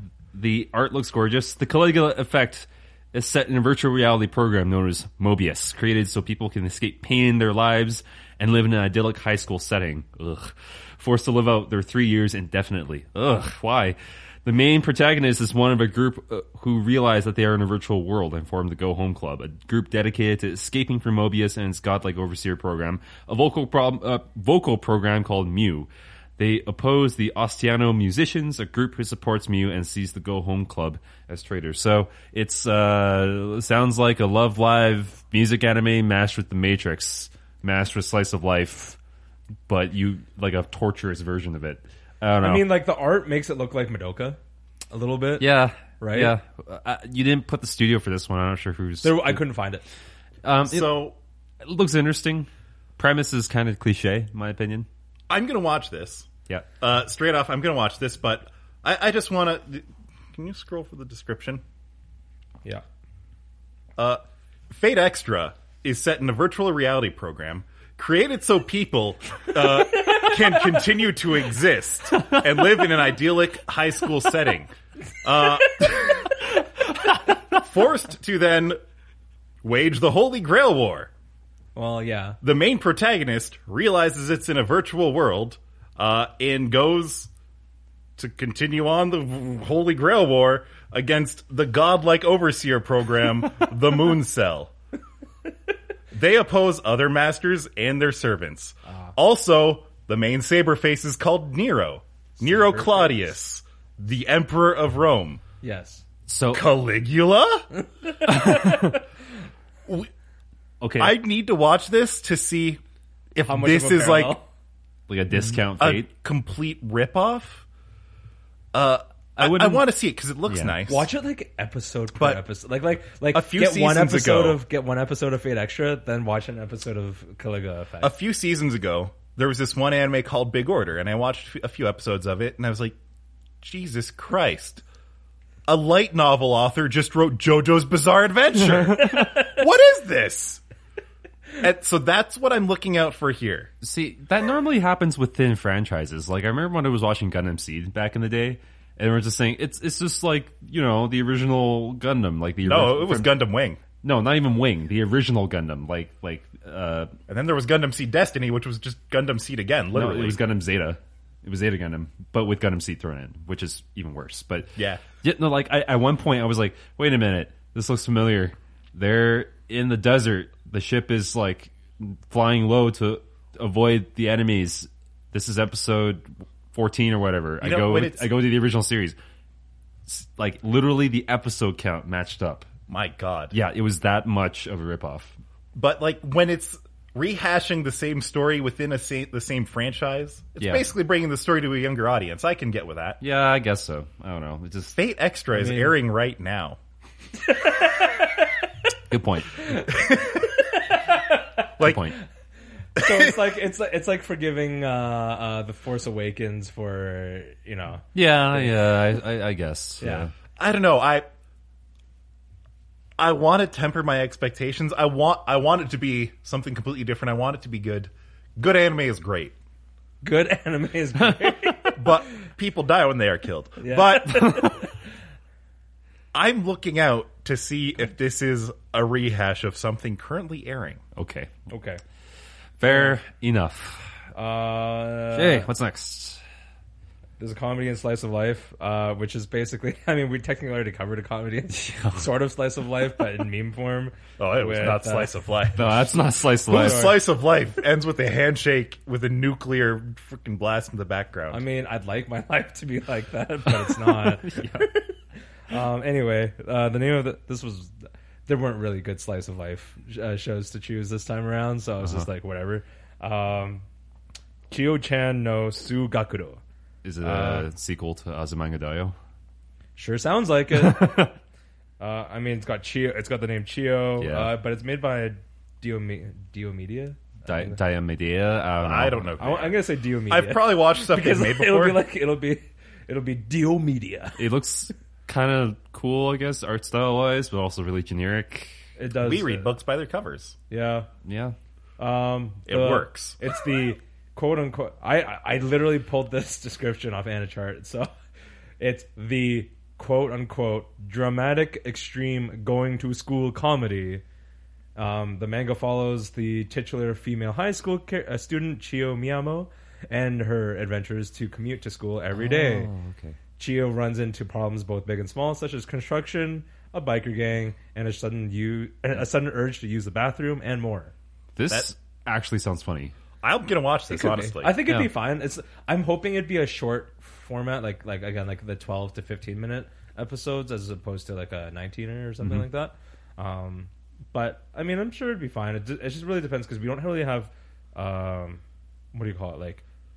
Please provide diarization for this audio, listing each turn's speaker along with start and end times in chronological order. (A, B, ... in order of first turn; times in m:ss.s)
0:00.3-0:39.0 A
0:39.7-0:42.7 A
0:42.4-0:44.4 B
0:44.9-0:46.4 B
0:45.4-0:49.4 A
0:49.0-0:49.8 B
0:50.4-0:51.1 A
0:50.7-0:51.2 C
0:51.6-0:54.9 A
0:55.3-0:56.3 C
0:56.8-1:01.6 C
1:04.0-1:14.7 C
1:15.2-1:16.3 C
1:17.5-1:18.8 C
1:19.6-1:21.1 C
1:21.8-1:22.4 B
1:22.4-1:27.3 C
1:28.2-1:34.7 C
1:36.1-1:45.4 C
1:38.9-1:39.1 B
1:42.4-1:43.3 B
1:45.6-1:46.0 B
1:46.3-1:46.7 A
1:46.5-1:47.7 C
1:48.0-1:49.0 B
1:48.2-1:49.0 A
1:50.8-1:51.2 A
1:51.0-1:52.8 C
1:53.4-1:54.4 C
1:53.4-1:54.5 B
1:55.1-1:56.1 A
1:55.3-1:57.6 C
1:58.7-2:01.1 C
1:59.4-1:59.8 A
2:00.5-2:00.8 A
2:00.9-2:08.1 B
2:02.2-2:02.4 C
2:03.3-2:04.6 C
2:08.0-2:13.0 C
2:13.6-2:14.8 C
2:15.7-2:20.6 C
2:21.6-2:23.7 C
2:23.8-2:33.4 A
2:32.6-2:33.8 C
2:34.0-2:37.2 A
2:37.3-2:40.4 C
2:39.9-2:59.2 A
2:44.8-2:45.0 C
2:57.6-2:58.3 C
3:00.1-3:02.7 A
3:02.9-3:03.5 C
3:03.5-3:05.4 A
3:05.8-3:13.2 C
3:10.6-3:10.9 A
3:13.2-3:15.0 A
3:14.9-3:16.8 C
3:15.5-3:16.0 B
3:17.5-3:18.5 B
3:19.1-3:19.7 A
3:19.6-3:21.6 B
3:19.9-3:20.4 C
3:21.8-3:22.1 C
3:21.8-3:22.2 A
3:23.0-3:28.8 B
3:23.0-3:23.4 C
3:28.2-3:30.3 A
3:30.0-3:30.3 B
3:30.6-3:31.2 C
3:33.2-3:39.6 C
3:40.2-3:42.1 B
3:41.9-3:44.6 C
3:43.8-3:45.0 B
3:44.4-3:44.7 A
3:46.3-3:51.0 C
3:51.2-3:51.5 A
3:51.7-3:52.0 B
3:52.8-3:54.2 A
3:52.8-3:53.2 B
3:54.3-3:55.7 B
3:55.3-3:56.4 A
3:57.4-4:05.4 B
4:01.7-4:02.2 A
4:04.4-4:11.6 C
4:05.8-4:07.2 A
4:06.7-4:07.2 B
4:11.5-4:15.1 B
4:13.8-4:14.9 A
4:15.7-4:17.9 B
4:18.5-4:23.8 B
4:22.0-4:22.3 A
4:24.7-4:26.6 B
4:27.0-4:29.2 A
4:27.2-4:27.7 B
4:30.0-4:31.3 B
4:30.7-4:31.3 A
4:32.0-4:37.8 B
4:34.2-4:34.5 A
4:37.5-4:39.3 A
4:38.8-4:42.0 C
4:39.4-4:44.4 B
4:44.4-4:48.8 A
4:49.0-4:49.7 B
4:49.2-4:50.6 C
4:50.7-4:51.1 B
4:51.2-4:51.6 A
4:52.0-4:58.1 B
4:52.7-4:53.4 C
4:58.8-5:04.2 B
5:05.0-5:12.9 B
5:12.3-5:13.4 A
5:13.6-5:21.1 B
5:21.6-5:23.1 A
5:23.4-5:24.8 C
5:24.1-5:38.6 B
5:24.9-5:25.1 A
5:32.4-5:32.7 A
5:39.1-5:39.8 B